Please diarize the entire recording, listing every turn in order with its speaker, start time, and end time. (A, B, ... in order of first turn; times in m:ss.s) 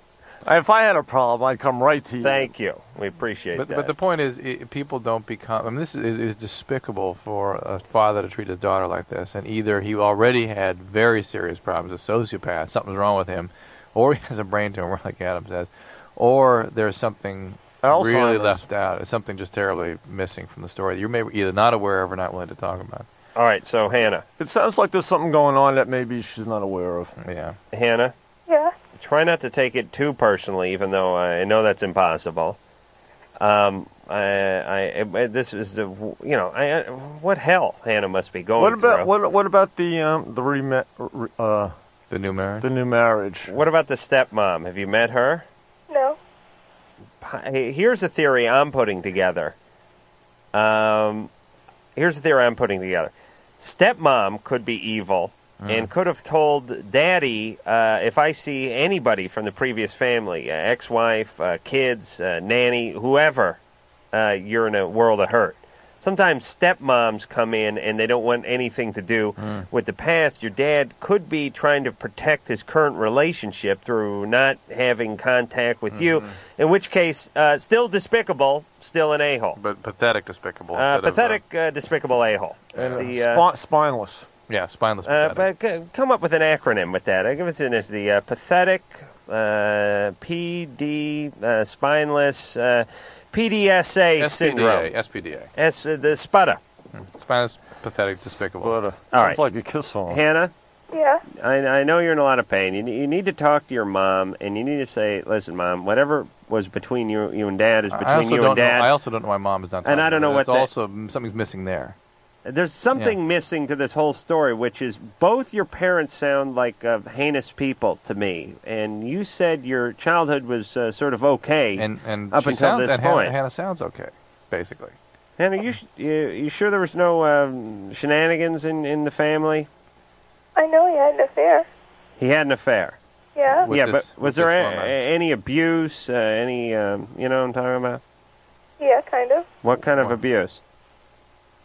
0:00.4-0:02.5 A
0:02.2-0:03.9 B
0:03.5-0:23.0 C
0:17.8-0:18.7 A
0:23.3-0:24.2 B
0:24.4-0:27.1 A
0:27.2-0:27.6 C
0:27.7-0:28.1 B
0:28.5-0:28.7 D
0:28.9-0:32.6 B
0:33.4-0:39.1 B
0:38.6-0:41.7 A
0:42.1-0:42.7 C
0:42.6-0:43.5 A
0:43.5-0:45.4 B
0:45.9-0:46.2 D
0:47.2-0:49.5 B
0:50.5-0:51.3 B
0:52.0-1:03.6 B
0:55.6-0:55.9 C
1:04.1-1:19.6 B
1:15.9-1:16.3 C
1:19.6-1:21.4 C
1:20.7-1:23.4 B
1:22.7-1:23.1 C
1:22.8-1:24.3 A
1:24.5-1:25.5 C
1:25.0-1:34.9 B
1:34.2-1:35.5 C
1:35.5-1:36.6 B
1:36.9-1:38.8 C
1:38.3-1:40.2 A
1:39.1-1:39.4 B
1:40.1-1:40.5 B
1:40.9-1:41.2 D
1:41.3-1:48.9 B
1:47.9-1:52.0 C
1:49.8-1:50.7 B
1:52.4-2:03.3 B
2:01.8-2:05.0 C
2:05.4-2:09.7 B
2:10.6-2:11.7 D
2:12.2-2:13.0 B
2:13.4-2:13.7 D
2:13.7-2:14.9 C
2:13.7-2:18.0 B
2:18.8-2:19.5 D
2:19.6-2:20.6 B